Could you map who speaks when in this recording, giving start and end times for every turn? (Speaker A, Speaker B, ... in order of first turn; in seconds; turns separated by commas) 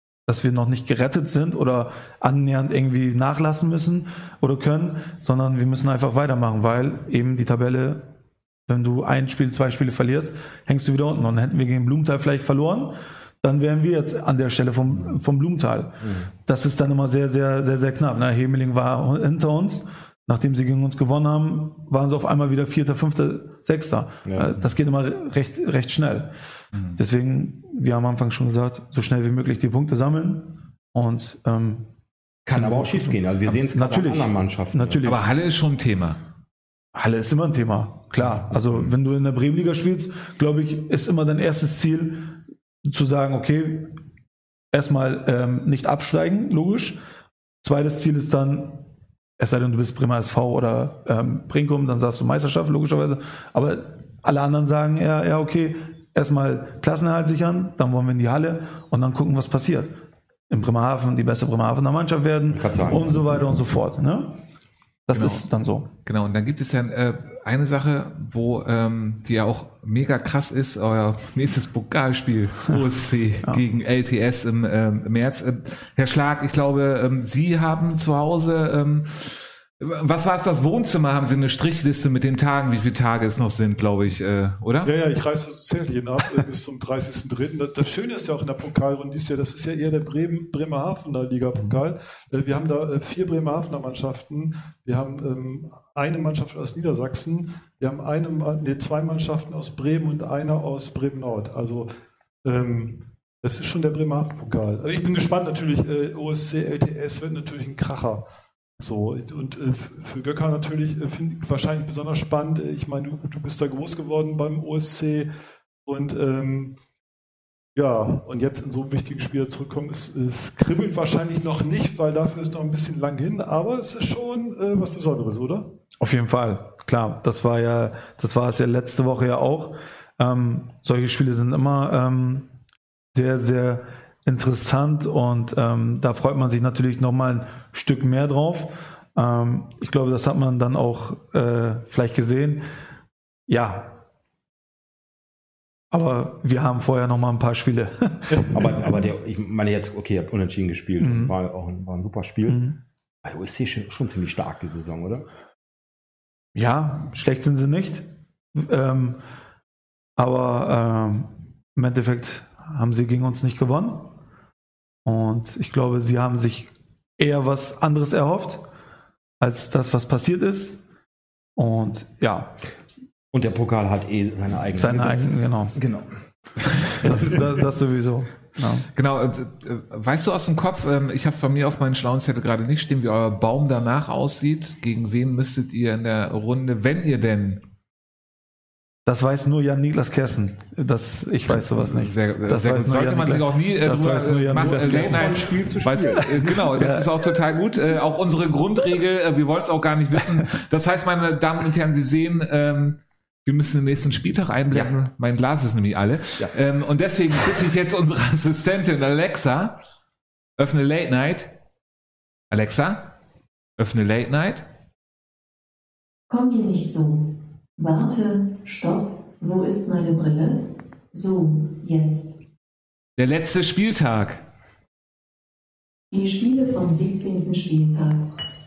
Speaker A: 0.3-8.1, Speaker A: 8.7-26.3, Speaker B: 16.0-16.3, Speaker B: 24.3-24.6, Speaker A: 27.0-31.9, Speaker B: 32.5-35.0, Speaker A: 32.5-35.2, Speaker C: 35.0-36.2, Speaker A: 37.0-44.0, Speaker A: 44.7-47.0, Speaker A: 47.6-48.8, Speaker A: 49.4-60.0, Speaker A: 60.5-64.4, Speaker B: 62.5-63.2, Speaker A: 65.1-65.9, Speaker C: 65.1-65.5, Speaker C: 66.0-84.9, Speaker D: 84.8-101.9, Speaker D: 102.4-108.2, Speaker D: 108.8-115.3, Speaker D: 115.9-116.8, Speaker D: 117.8-125.7, Speaker A: 126.0-132.5, Speaker A: 133.1-142.7, Speaker A: 143.5-144.0, Speaker A: 145.9-148.9, Speaker B: 148.5-152.6, Speaker A: 151.0-151.3, Speaker A: 152.5-152.8, Speaker B: 153.2-155.3, Speaker A: 156.6-159.2, Speaker A: 160.2-164.1, Speaker A: 165.1-168.7, Speaker A: 169.4-170.8, Speaker A: 171.6-172.6, Speaker B: 173.3-176.1, Speaker A: 174.8-175.8, Speaker B: 176.7-177.2, Speaker A: 177.0-178.9, Speaker C: 178.9-187.6, Speaker A: 189.1-195.4, Speaker C: 191.7-209.8, Speaker B: 194.5-196.7, Speaker A: 196.5-197.2, Speaker C: 210.6-211.5, Speaker C: 212.5-213.1, Speaker C: 213.8-214.7, Speaker E: 216.3-222.4, Speaker C: 223.2-224.4, Speaker E: 226.1-228.3